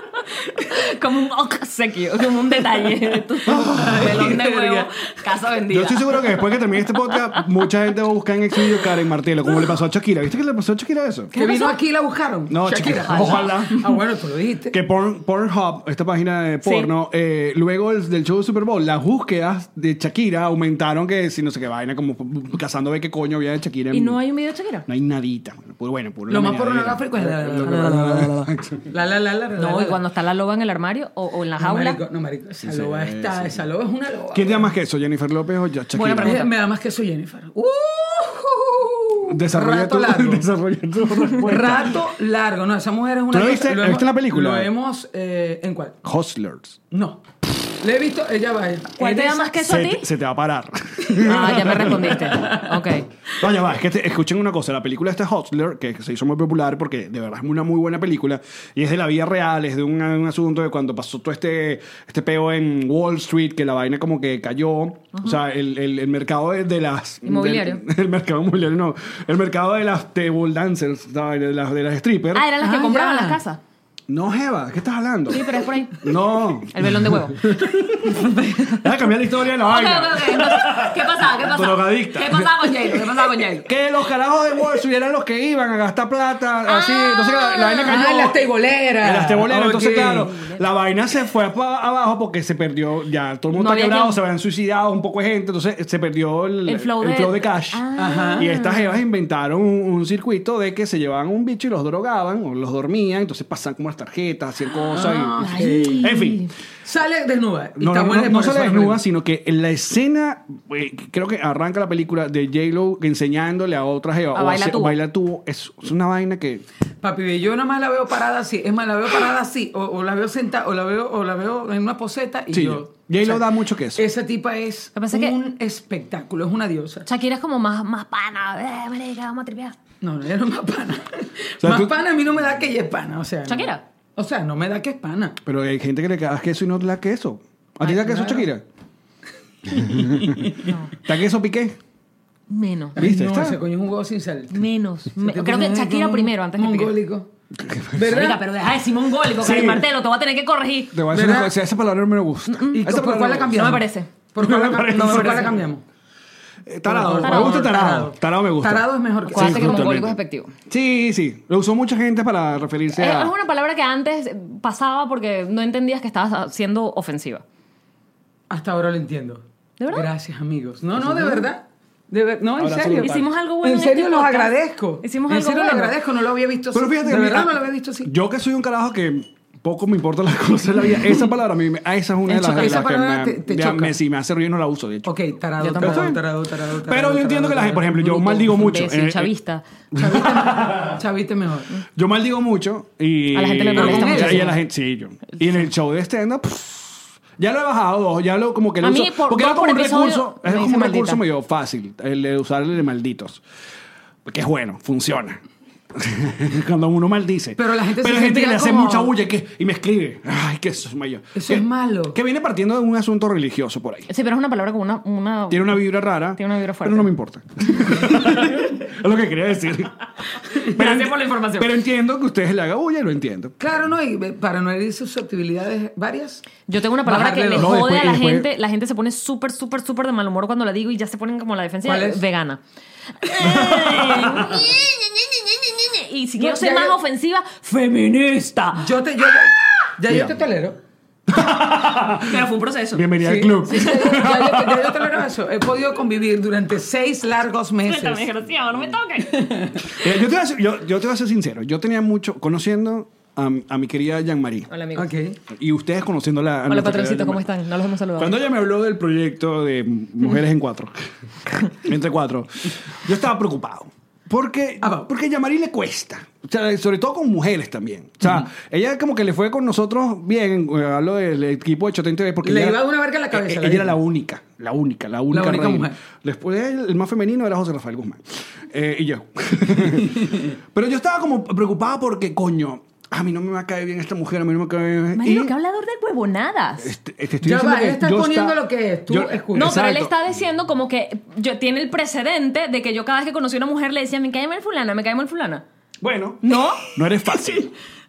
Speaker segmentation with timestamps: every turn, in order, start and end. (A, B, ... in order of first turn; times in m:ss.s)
0:00.4-0:07.4 A
0:03.4-0:04.4 B
0:03.7-0:05.0 C
0:05.7-0:11.3 B
0:11.3-0:11.7 A
0:11.3-0:14.8 C
0:12.5-0:13.8 B
0:13.0-0:13.8 A
0:14.7-0:24.2 B
0:16.6-0:16.9 A
0:23.9-0:24.9 A
0:24.9-0:28.9 B
0:26.3-0:28.3 C
0:27.7-0:28.5 A
0:28.9-0:30.0 C
0:29.6-0:32.0 A
0:31.6-0:34.7 C
0:32.6-0:33.6 B
0:34.3-0:36.4 B
0:35.9-0:36.5 A
0:36.2-0:40.5 C
0:39.3-0:42.0 B
0:41.4-0:46.0 C
0:43.3-0:44.7 B
0:46.0-0:46.8 B
0:46.9-0:47.2 C
0:47.8-0:49.7 C
0:49.0-0:50.1 A
0:49.6-0:52.2 B
0:51.1-0:52.8 C
0:51.2-0:53.0 A
0:53.4-1:12.4 B
1:07.2-1:07.8 A
1:12.3-1:13.6 A
1:12.6-1:13.4 C
1:14.1-1:28.4 B
1:15.3-1:17.5 A
1:18.4-1:18.8 A
1:19.6-1:23.7 A
1:26.6-1:28.0 A
1:27.8-1:30.4 C
1:29.0-1:46.4 B
1:33.5-1:34.2 A
1:36.7-1:39.0 A
1:38.0-1:38.5 C
1:44.9-1:46.1 C
1:45.0-1:46.5 A
1:46.8-1:49.0 C
1:47.8-1:56.6 B
1:54.3-1:55.0 A
1:57.0-2:07.1 C
2:02.5-2:04.0 B
2:05.0-2:05.4 A
2:07.0-2:09.8 A
2:10.0-2:15.4 C
2:11.6-2:11.9 B
2:13.5-2:13.8 A
2:15.4-2:18.6 B
2:17.8-2:18.5 C
2:19.7-2:21.8 B
2:19.7-2:20.7 C
2:20.6-2:20.9 A
2:22.5-2:23.0 A
2:23.0-2:24.6 C
2:23.0-2:23.6 B
2:24.5-2:26.9 A
2:25.2-2:27.3 C
2:27.5-2:28.2 B
2:27.9-2:28.4 C
2:28.1-2:31.0 A
2:29.4-2:29.8 B
2:30.9-2:33.7 B
2:31.1-2:31.5 C
2:32.5-2:32.8 A
2:32.7-2:35.8 C
2:33.5-2:34.1 A
2:34.4-2:35.6 B
2:34.9-2:35.6 A
2:36.6-2:40.2 B
2:36.8-2:39.9 C
2:37.2-2:37.6 A
2:39.3-2:40.5 A
2:40.7-2:43.3 B
2:42.9-2:47.4 A
2:48.5-2:58.1 C
2:49.8-2:50.1 A
2:51.0-2:51.4 B
2:52.6-2:53.3 B
2:53.0-2:55.9 A
2:56.7-3:05.1 B
3:02.3-3:03.9 C
3:05.0-3:08.0 C
3:05.6-3:06.2 A
3:05.8-3:06.2 B
3:06.7-3:09.3 B
3:08.0-3:09.6 A
3:09.9-3:11.0 B
3:10.0-3:11.8 C
3:12.0-3:23.4 B
3:13.3-3:14.6 A
3:13.7-3:14.5 C
3:18.8-3:21.2 A
3:24.2-3:25.4 B
3:25.9-3:34.1 B
3:27.6-3:29.1 C
3:31.3-3:32.2 C
3:34.1-3:37.1 A
3:35.5-3:43.5 B
3:40.5-3:41.7 A
3:43.6-3:47.8 C
3:46.7-3:52.6 A
3:47.5-3:48.5 B
3:51.8-3:52.2 C
3:53.2-3:55.0 A
3:53.4-3:54.6 C
3:55.6-3:58.9 A
3:56.4-3:57.0 C
3:58.7-4:00.8 C
4:01.3-4:05.0 B
4:02.2-4:03.1 A
4:03.2-4:08.3 C
4:07.8-4:09.7 A
4:09.2-4:09.9 C
4:09.9-4:14.7 B
4:14.7-4:15.1 A
4:15.0-4:15.4 C
4:15.5-4:17.4 B
4:16.7-4:18.4 A
4:18.2-4:32.8 B
4:24.8-4:25.1 C
4:32.4-4:34.0 C
4:33.3-4:45.5 B
4:35.3-4:36.0 C
4:40.0-4:40.3 C
4:45.1-4:46.9 A
4:46.8-4:50.1 B
4:47.4-4:49.8 C
4:49.5-4:55.6 A
4:56.0-4:57.7 B
4:56.4-4:56.8 A